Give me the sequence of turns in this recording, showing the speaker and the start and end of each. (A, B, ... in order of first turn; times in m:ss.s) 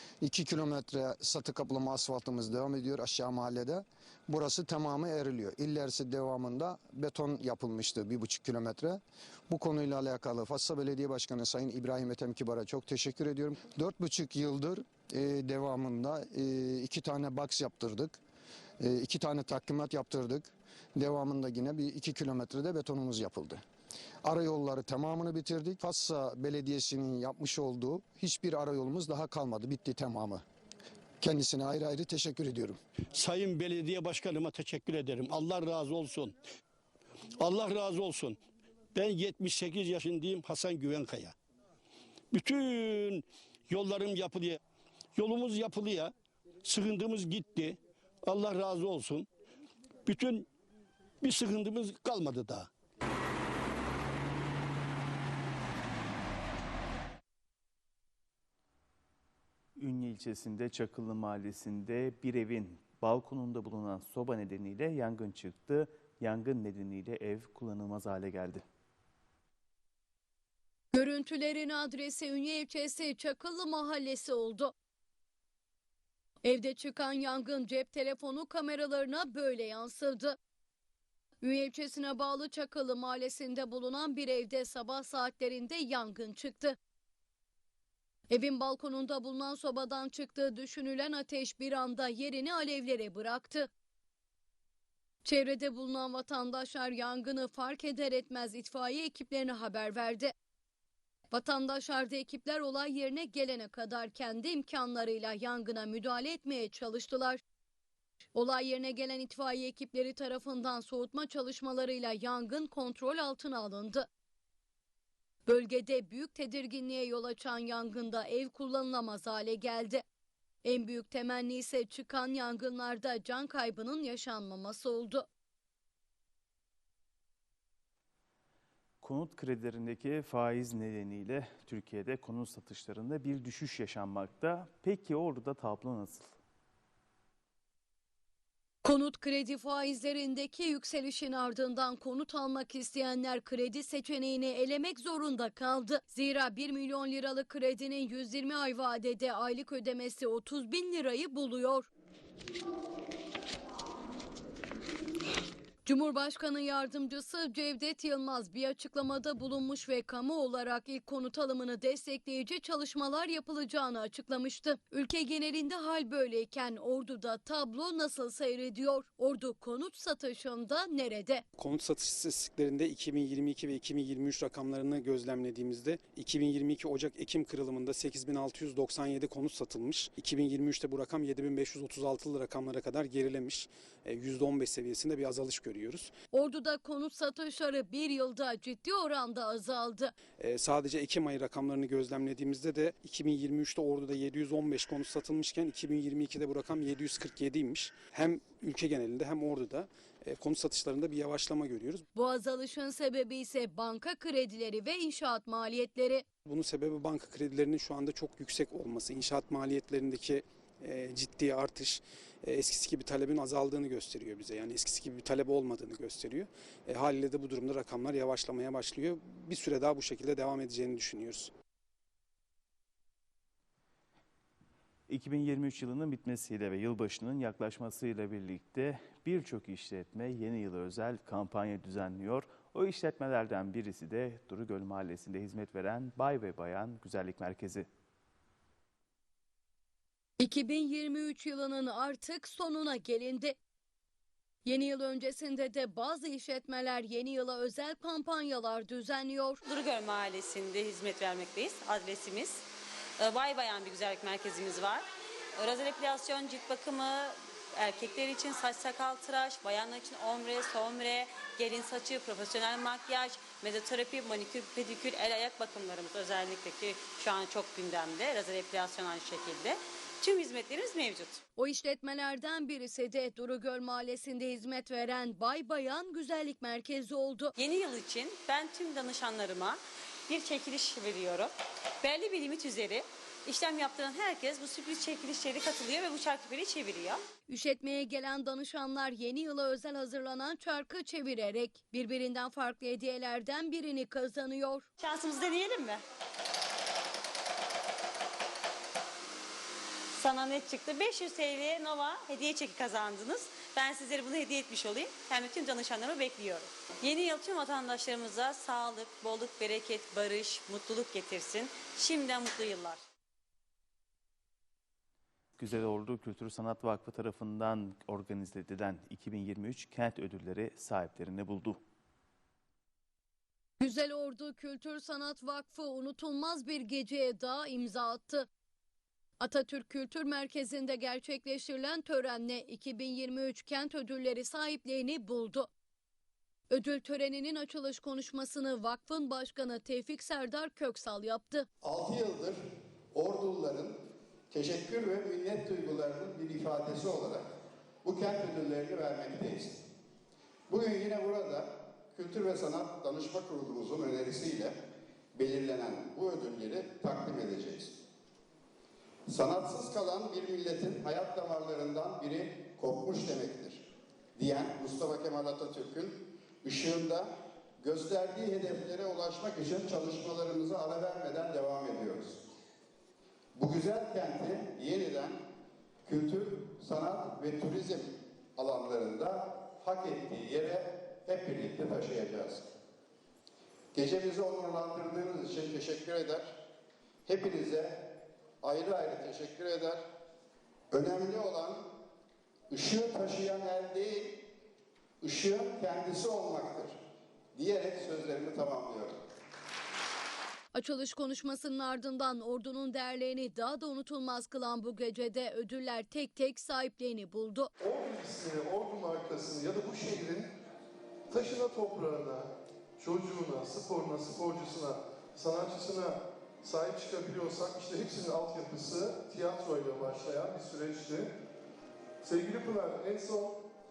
0:00.2-0:18.2 A
0:18.8-0:23.6 A
0:24.2-0:30.4 A
0:31.2-0:32.8 A
0:33.1-0:36.4 B
0:37.4-0:38.4 B
0:38.9-0:41.3 B
0:42.3-0:44.6 B
0:45.2-0:46.1 B
0:46.6-0:49.3 B
0:50.0-0:50.5 B
0:51.2-0:52.7 B
0:59.8-1:08.6 C
1:10.9-1:14.7 D
1:16.4-1:20.4 D
1:21.4-1:26.8 D
1:28.3-1:33.7 D
1:35.2-1:40.3 D
1:41.3-1:47.4 D
1:48.3-1:54.1 D
1:55.5-2:00.0 D
2:00.6-2:05.2 D
2:09.0-2:16.4 C
2:18.8-2:31.9 D
2:35.8-2:51.4 D
2:51.6-3:06.1 E
3:06.3-3:10.1 D
3:10.4-3:22.0 E
3:22.1-3:26.2 D
3:26.4-3:41.5 E
3:45.1-3:57.9 C
4:00.4-4:03.6 D
4:04.6-4:09.6 D
4:09.6-4:12.6 F
4:13.2-4:15.0 F
4:15.6-4:31.4 F
4:31.6-4:37.5 D
4:37.6-4:47.2 F
4:47.5-4:54.9 D
4:55.0-4:56.0 F
5:00.2-5:13.0 F
5:15.6-5:21.8 C
5:23.8-5:28.5 D
5:29.4-5:35.7 D
5:36.7-5:41.7 D
5:41.8-5:42.6 G
5:43.1-5:44.0 G
5:44.5-5:47.4 G
5:48.0-5:49.8 G
5:50.7-5:54.8 G
5:55.3-5:58.0 G
5:59.3-6:12.4 G
6:13.5-6:15.4 G
6:16.0-6:22.6 G
6:23.9-6:26.6 G
6:27.2-6:30.0 G
6:30.9-6:31.9 G
6:32.7-6:34.4 G
6:35.2-6:37.0 G
6:37.5-6:39.2 G
6:40.7-6:47.7 D
6:47.8-6:50.5 H
6:51.3-7:01.3 H
7:02.2-7:03.6 H